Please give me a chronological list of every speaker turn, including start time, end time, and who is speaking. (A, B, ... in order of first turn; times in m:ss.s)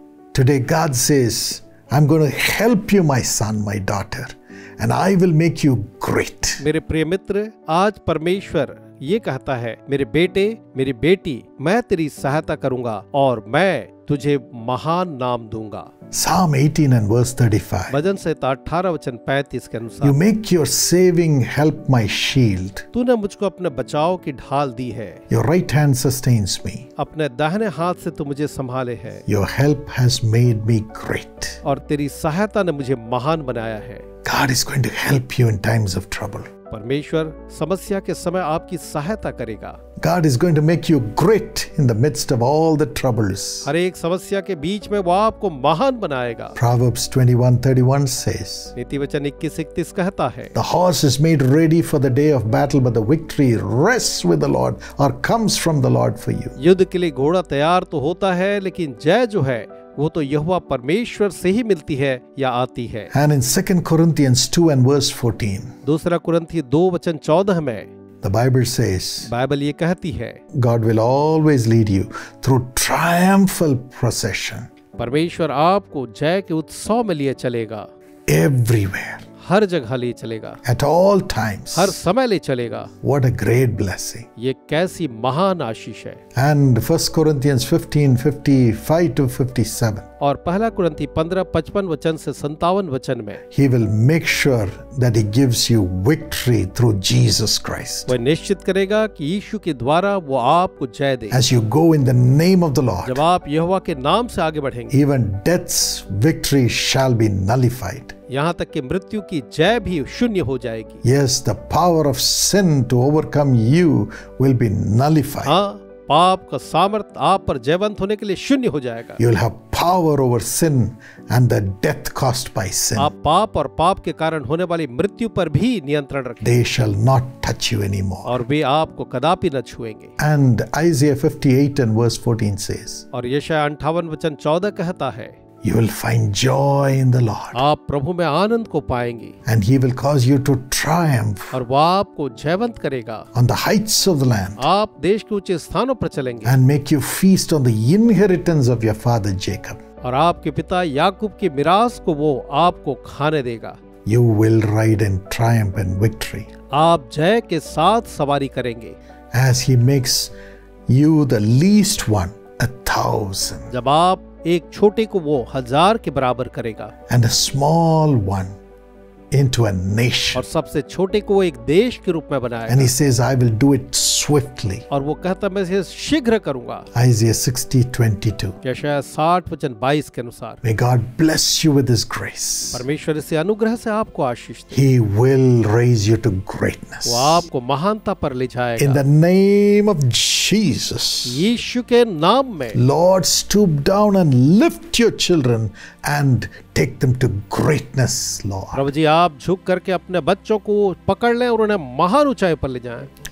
0:00.3-0:06.6 A
0:06.6-0:15.9 B
0:16.1-0:18.0 A
0:17.9-0:20.2 B
0:20.0-0:22.9 A
0:22.9-0:25.2 B
0:25.3-0:26.9 A
0:27.0-0:29.2 B
0:29.3-0:31.6 A
0:31.6-0:34.0 B
0:34.2-0:36.5 A
0:36.7-0:39.8 B
0:40.0-0:43.7 A
0:43.6-0:46.6 B
0:46.6-0:48.7 A
0:48.7-0:50.6 B
0:50.5-0:56.6 A
0:56.6-1:03.1 B
1:03.1-1:05.7 A
1:05.8-1:07.9 B
1:08.2-1:09.3 A
1:09.2-1:10.4 B
1:10.5-1:14.7 A
1:15.0-1:17.9 B
1:18.3-1:19.2 A
1:19.4-1:20.6 B
1:20.6-1:22.0 A
1:21.7-1:22.9 B
1:23.0-1:24.3 A
1:24.4-1:26.2 B
1:26.4-1:30.1 A
1:30.2-1:33.4 B
1:33.5-1:38.2 A
1:38.1-1:41.4 B
1:41.3-1:43.2 A
1:43.0-1:45.0 B
1:44.9-1:48.1 A
1:48.3-1:51.0 B
1:51.0-1:55.6 A
1:55.4-1:59.2 B
1:59.2-2:03.1 A
2:03.0-2:06.5 B
2:06.4-2:08.4 A
2:08.2-2:10.1 B
2:10.2-2:13.0 A
2:13.1-2:15.3 B
2:15.6-2:17.6 A
2:17.5-2:19.4 B
2:19.4-2:21.6 A
2:21.5-2:23.3 B
2:23.3-2:24.7 A
2:24.6-2:26.6 B
2:26.4-2:29.8 A
2:30.0-2:33.8 B
2:34.1-2:36.5 A
2:36.7-2:39.0 B
2:39.3-2:40.3 A
2:40.9-2:43.7 A
2:43.7-2:46.9 B
2:47.1-2:48.6 A
2:49.3-2:50.4 A
2:50.3-2:52.9 B
2:52.7-2:54.8 A
2:54.9-2:56.9 B
2:56.9-2:58.6 A
2:58.6-3:00.6 B
3:00.6-3:02.8 A
3:02.7-3:04.8 B
3:04.7-3:07.5 A
3:07.0-3:09.0 B
3:08.8-3:11.4 A
3:11.2-3:12.8 B
3:12.7-3:18.9 A
3:18.7-3:23.1 B